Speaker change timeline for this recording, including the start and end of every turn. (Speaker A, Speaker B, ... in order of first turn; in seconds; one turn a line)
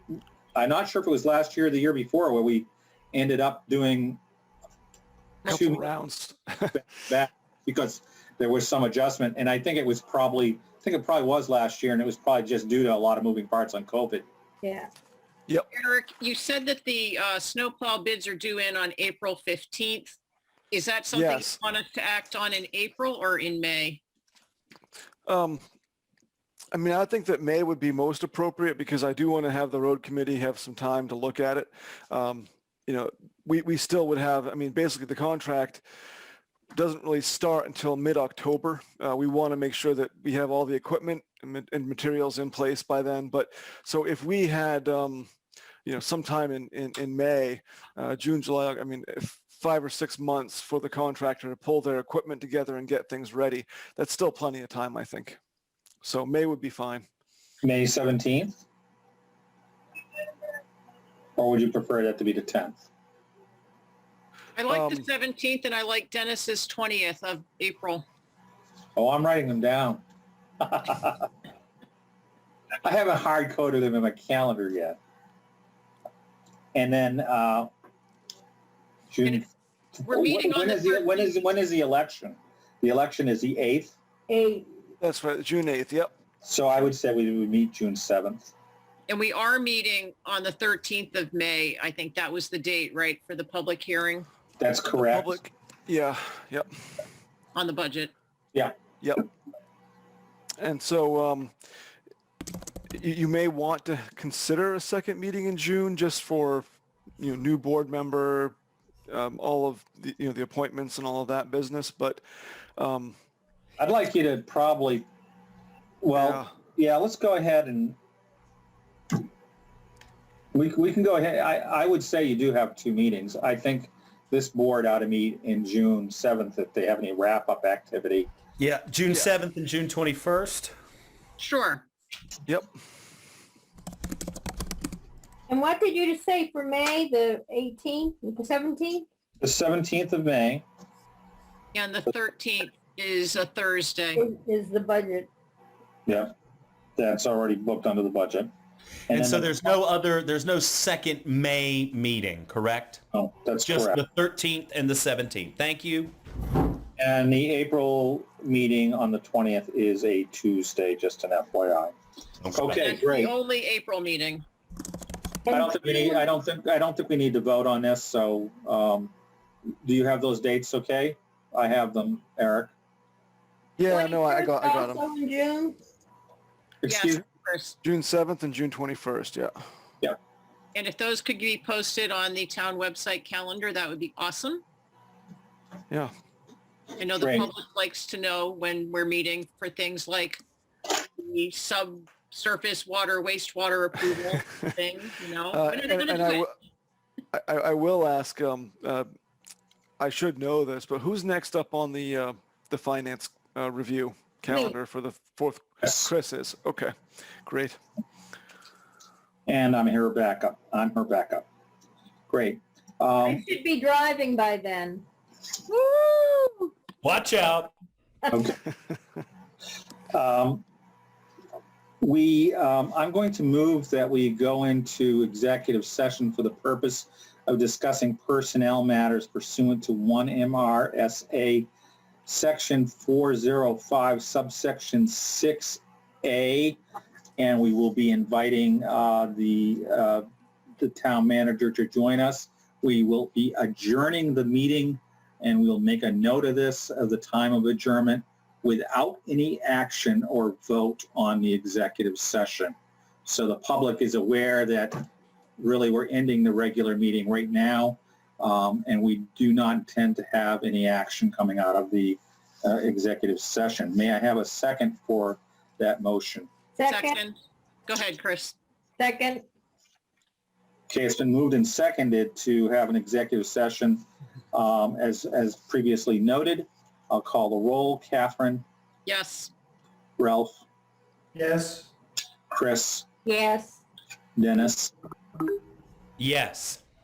Speaker A: 0.5-4.2
Speaker A: 5.5-5.9
Speaker B: 5.5-6.8
Speaker A: 6.7-14.2
Speaker C: 14.6-14.9
Speaker D: 15.7-20.2
Speaker D: 20.7-24.0
Speaker B: 21.1-21.5
Speaker B: 25.2-25.6
Speaker B: 26.7-35.8
Speaker B: 36.7-45.3
Speaker B: 45.8-55.4
Speaker B: 56.0-57.0
Speaker A: 57.6-58.6
Speaker A: 61.4-62.8
Speaker D: 64.5-68.0
Speaker B: 64.7-65.0
Speaker A: 69.0-70.0
Speaker A: 70.6-71.3
Speaker A: 72.8-75.0
Speaker A: 76.7-77.7
Speaker A: 79.1-79.4
Speaker D: 80.0-81.4
Speaker A: 80.1-83.9
Speaker C: 84.3-84.7
Speaker B: 85.0-86.1
Speaker A: 86.4-88.5
Speaker D: 89.1-94.3
Speaker A: 94.6-95.3
Speaker B: 94.9-96.7
Speaker D: 97.5-98.1
Speaker B: 99.0-99.2
Speaker B: 100.6-101.5
Speaker B: 102.9-106.7
Speaker B: 107.2-108.5
Speaker B: 109.1-112.2
Speaker B: 112.8-113.2
Speaker A: 113.8-115.1
Speaker A: 116.0-118.0
Speaker B: 116.1-116.5
Speaker A: 120.5-128.3
Speaker E: 128.6-130.7
Speaker D: 131.4-131.9
Speaker C: 135.5-139.1
Speaker A: 139.4-140.6
Speaker D: 141.7-144.2
Speaker C: 144.2-145.3
Speaker A: 146.1-146.3
Speaker A: 147.0-148.5
Speaker A: 149.1-149.7
Speaker E: 149.1-153.0
Speaker A: 153.1-154.0
Speaker E: 153.6-156.2
Speaker A: 157.0-161.9
Speaker A: 162.5-163.3
Speaker D: 162.7-164.4
Speaker C: 165.5-166.3
Speaker A: 165.5-169.1
Speaker A: 169.8-172.7
Speaker B: 173.8-175.1
Speaker C: 173.9-175.8
Speaker A: 176.8-177.2
Speaker D: 176.9-177.8
Speaker B: 177.8-179.5
Speaker D: 180.8-184.6
Speaker D: 187.0-196.5
Speaker A: 187.2-187.5
Speaker B: 195.5-196.5
Speaker B: 197.3-199.1
Speaker B: 200.0-206.9
Speaker C: 204.5-204.7
Speaker B: 207.4-207.8
Speaker A: 209.5-211.5
Speaker A: 212.3-213.4
Speaker C: 213.2-215.1
Speaker C: 215.7-216.7
Speaker E: 217.0-217.7
Speaker A: 218.3-218.6
Speaker A: 220.1-220.7
Speaker A: 222.0-231.7
Speaker A: 232.3-236.8
Speaker A: 237.4-240.3
Speaker A: 240.8-266.5
Speaker C: 266.8-267.2
Speaker D: 266.9-268.6
Speaker C: 269.0-269.4
Speaker A: 270.9-278.6
Speaker D: 279.1-279.5
Speaker A: 280.2-280.6
Speaker E: 281.4-281.9
Speaker A: 282.5-283.1
Speaker C: 283.2-283.8
Speaker A: 284.4-284.9
Speaker E: 286.2-286.8